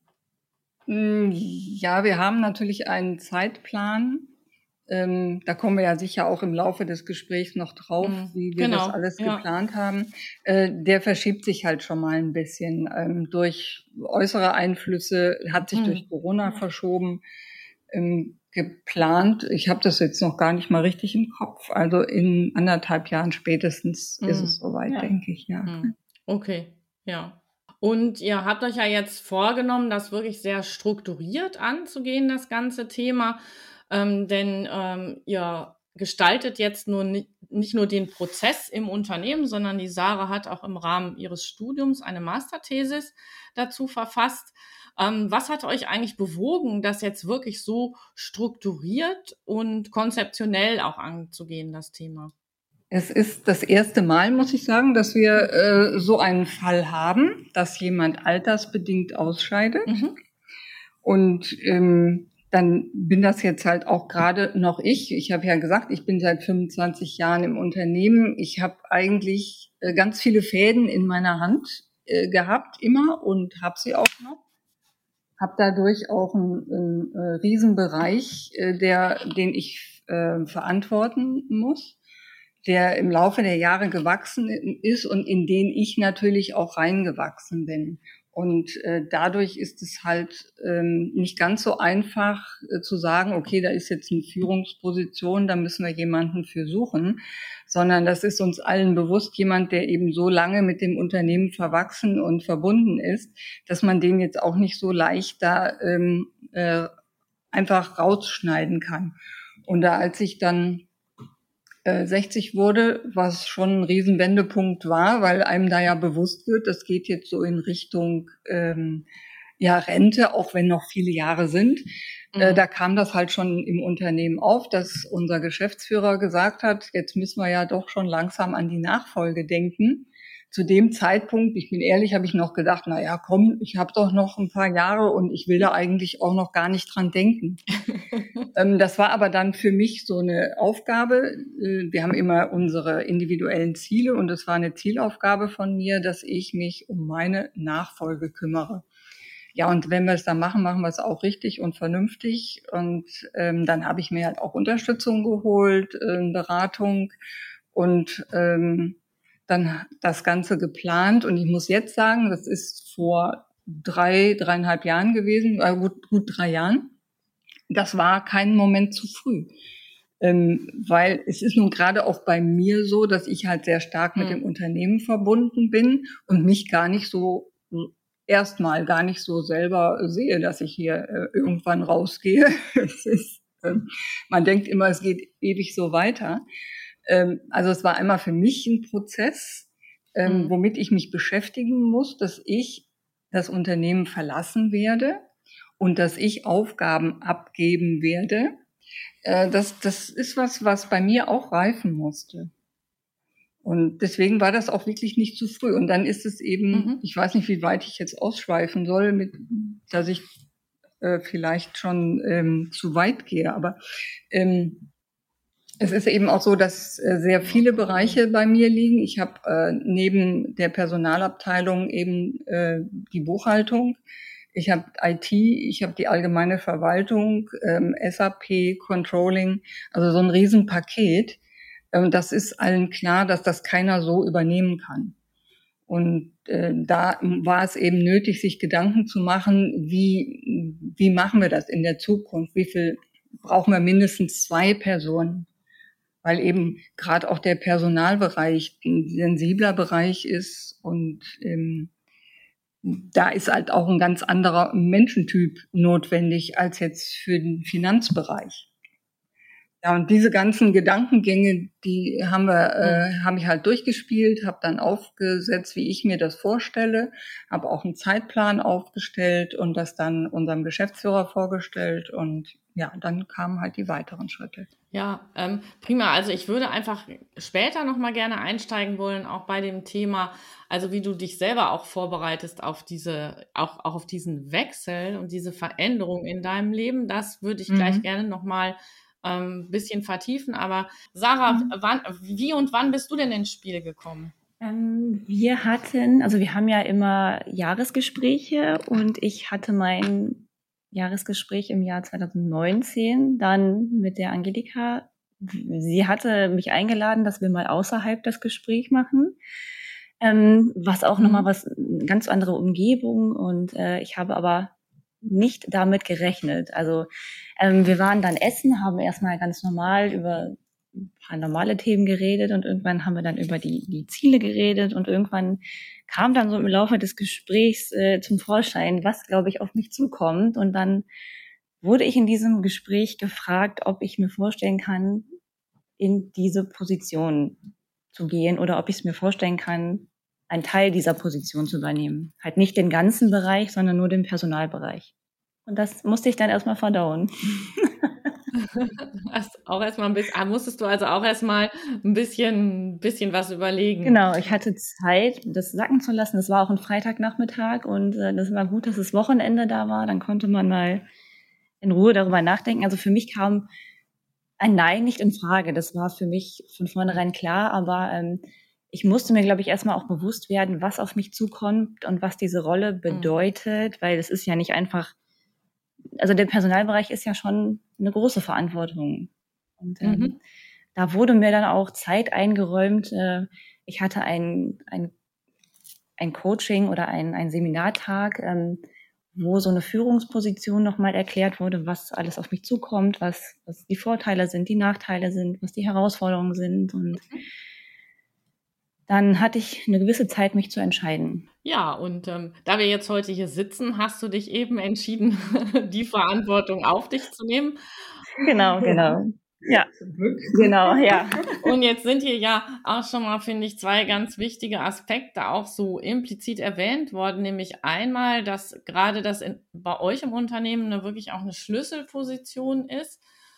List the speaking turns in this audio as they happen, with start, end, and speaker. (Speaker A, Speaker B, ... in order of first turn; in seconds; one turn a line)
Speaker A: 0.9-4.3
Speaker A: 4.9-17.2
Speaker B: 8.0-9.4
Speaker B: 15.7-16.0
Speaker A: 17.9-25.8
Speaker B: 24.2-25.1
Speaker B: 25.7-52.3
Speaker A: 52.9-60.0
Speaker B: 59.9-60.2
Speaker A: 61.0-74.4
Speaker A: 75.4-82.0
Speaker A: 82.6-106.9
Speaker A: 107.5-109.1
Speaker A: 109.7-110.9
Speaker A: 111.8-119.1
Speaker A: 119.6-137.6
Speaker B: 122.3-122.6
Speaker B: 137.9-138.5
Speaker A: 138.5-148.9
Speaker A: 149.6-157.1
Speaker A: 157.7-159.0
Speaker A: 159.5-166.9
Speaker A: 167.7-169.5
Speaker A: 170.2-186.4
Speaker B: 174.2-174.4
Speaker A: 187.1-195.2
Speaker B: 190.2-190.5
Speaker A: 195.8-198.5
Speaker A: 199.2-202.5
Speaker A: 203.6-210.2
Speaker B: 206.7-207.0
Speaker A: 211.0-213.8
Speaker A: 214.3-214.9
Speaker A: 215.8-224.0
Speaker B: 217.4-218.2
Speaker A: 224.5-231.4
Speaker A: 231.9-235.1
Speaker A: 235.9-245.5
Speaker A: 246.2-251.9
Speaker A: 252.8-258.7
Speaker A: 259.8-274.7
Speaker B: 262.8-263.1
Speaker B: 274.9-294.3
Speaker A: 287.7-288.1
Speaker C: 294.6-309.4
Speaker C: 310.2-317.1
Speaker B: 311.2-311.5
Speaker C: 317.6-331.1
Speaker C: 331.8-335.3
Speaker C: 336.0-337.6
Speaker C: 338.1-345.1
Speaker C: 345.6-348.1
Speaker B: 348.6-354.2
Speaker C: 354.0-361.1
Speaker C: 361.8-363.7
Speaker C: 364.6-375.1
Speaker B: 373.1-373.3
Speaker C: 376.2-380.4
Speaker B: 380.0-380.4
Speaker C: 380.9-385.1
Speaker C: 386.2-388.8
Speaker C: 389.4-397.2
Speaker C: 399.1-401.5
Speaker B: 401.6-407.8
Speaker C: 408.4-409.9
Speaker A: 408.8-409.1
Speaker A: 410.0-411.2
Speaker C: 410.6-411.4
Speaker B: 411.6-423.2